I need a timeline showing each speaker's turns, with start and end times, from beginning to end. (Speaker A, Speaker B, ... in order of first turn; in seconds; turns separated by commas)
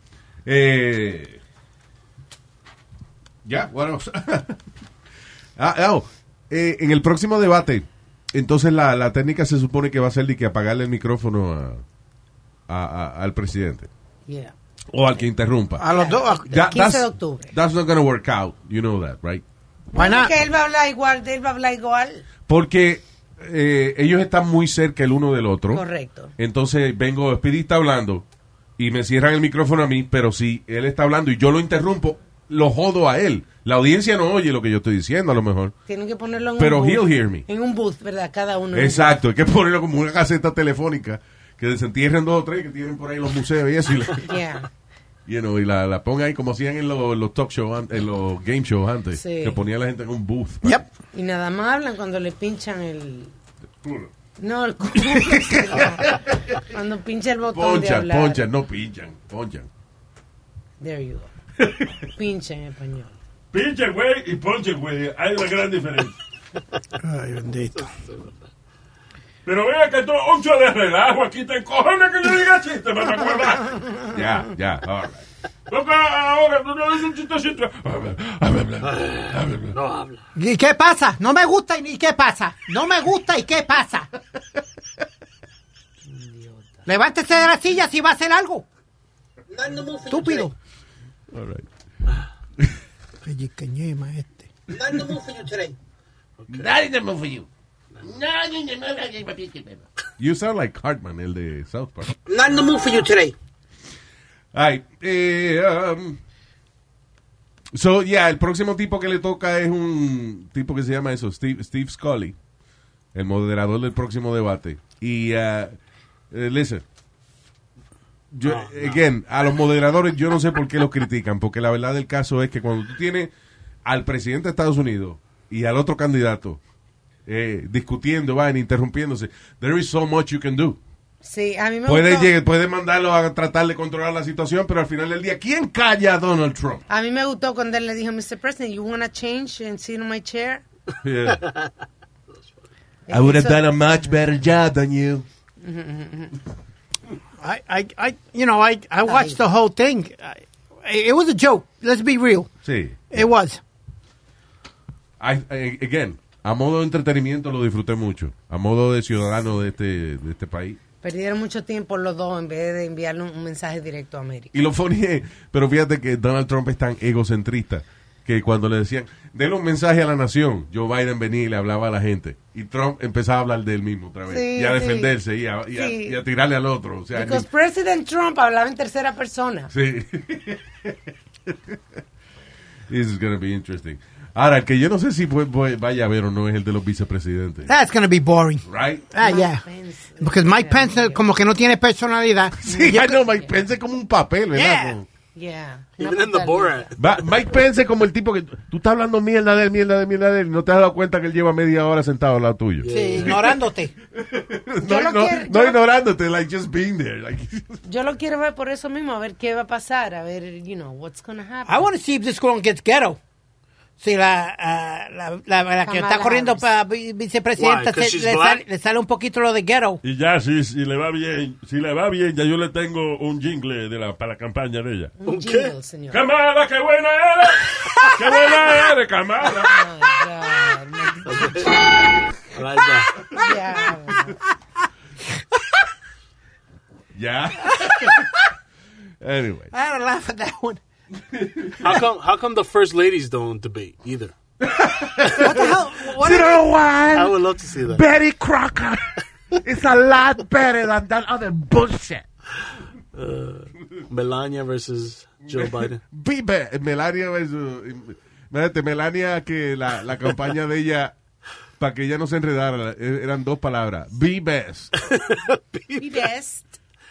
Speaker A: 0.5-1.4, Speaker A: 3.5-4.6, Speaker A: 5.6-11.8, Speaker A: 12.7-13.9, Speaker B: 14.3-14.5, Speaker A: 14.9-15.9, Speaker C: 15.8-16.5, Speaker B: 15.8-17.5, Speaker A: 16.5-19.4, Speaker C: 19.9-20.3, Speaker B: 19.9-22.2, Speaker A: 22.5-25.8, Speaker B: 25.7-26.3, Speaker A: 26.4-28.2, Speaker A: 28.8-35.7, Speaker B: 35.9-39.1, Speaker A: 36.6-37.5, Speaker A: 38.7-44.3, Speaker B: 44.2-44.7, Speaker A: 45.3-50.9, Speaker B: 49.1-49.6, Speaker B: 51.1-53.3, Speaker D: 53.9-54.1, Speaker B: 54.4-58.4, Speaker A: 55.1-56.3, Speaker A: 57.5-59.7, Speaker B: 60.8-61.3, Speaker B: 62.1-63.1, Speaker D: 63.5-66.2, Speaker C: 67.0-67.9, Speaker E: 67.7-68.5, Speaker D: 69.5-73.8, Speaker A: 74.1-75.2, Speaker D: 75.7-79.8, Speaker E: 78.8-80.2, Speaker C: 80.4-84.1, Speaker B: 86.1-86.8, Speaker C: 86.9-88.7, Speaker F: 89.5-90.5, Speaker C: 90.1-90.5, Speaker A: 91.3-91.7, Speaker C: 93.2-94.5, Speaker F: 94.7-95.8, Speaker E: 96.4-96.7, Speaker A: 96.5-97.5, Speaker A: 98.0-102.2, Speaker F: 102.3-103.3, Speaker A: 104.5-106.2, Speaker A: 107.7-112.4, Speaker A: 113.1-115.8, Speaker A: 116.3-116.8, Speaker A: 118.3-123.3, Speaker E: 118.4-119.0, Speaker A: 123.8-126.6, Speaker A: 127.3-130.8, Speaker B: 131.2-132.3, Speaker A: 131.9-136.8, Speaker B: 136.9-140.6, Speaker A: 141.0-141.4, Speaker B: 143.1-144.2, Speaker A: 143.1-145.3, Speaker B: 145.6-146.3, Speaker C: 147.4-152.5, Speaker B: 149.1-149.4, Speaker A: 152.6-153.2, Speaker C: 153.1-153.6, Speaker A: 155.2-160.8, Speaker B: 161.0-164.5, Speaker A: 164.5-177.5, Speaker B: 174.3-175.1, Speaker B: 175.7-176.2, Speaker B: 177.1-179.7, Speaker A: 179.7-181.8, Speaker A: 182.9-187.7, Speaker C: 187.7-189.6, Speaker A: 188.6-189.1, Speaker B: 189.2-191.2, Speaker C: 190.2-193.1, Speaker A: 192.6-195.1, Speaker B: 192.6-193.5, Speaker C: 194.5-195.0, Speaker B: 195.3-196.9, Speaker E: 196.0-197.1, Speaker A: 197.0-203.4, Speaker E: 202.8-203.6, Speaker C: 202.9-203.9, Speaker A: 204.1-207.8, Speaker B: 204.8-205.8, Speaker B: 207.8-211.9, Speaker C: 211.7-213.2, Speaker C: 214.0-220.0, Speaker B: 215.9-216.7, Speaker E: 217.6-218.7, Speaker D: 220.0-225.2, Speaker B: 225.2-226.2, Speaker E: 225.2-225.7, Speaker D: 226.1-229.8, Speaker B: 229.5-231.7, Speaker E: 231.2-231.8, Speaker E: 232.5-233.2, Speaker B: 233.3-234.4, Speaker A: 237.2-238.3, Speaker C: 237.8-238.2, Speaker A: 239.2-239.7, Speaker C: 239.7-240.8, Speaker A: 241.3-242.0, Speaker E: 241.8-244.3, Speaker A: 244.6-249.1, Speaker C: 245.4-246.6, Speaker E: 247.1-248.0, Speaker A: 249.6-252.2, Speaker E: 253.1-256.0, Speaker A: 255.5-261.1, Speaker A: 261.8-264.9, Speaker E: 265.1-266.1, Speaker B: 265.9-266.8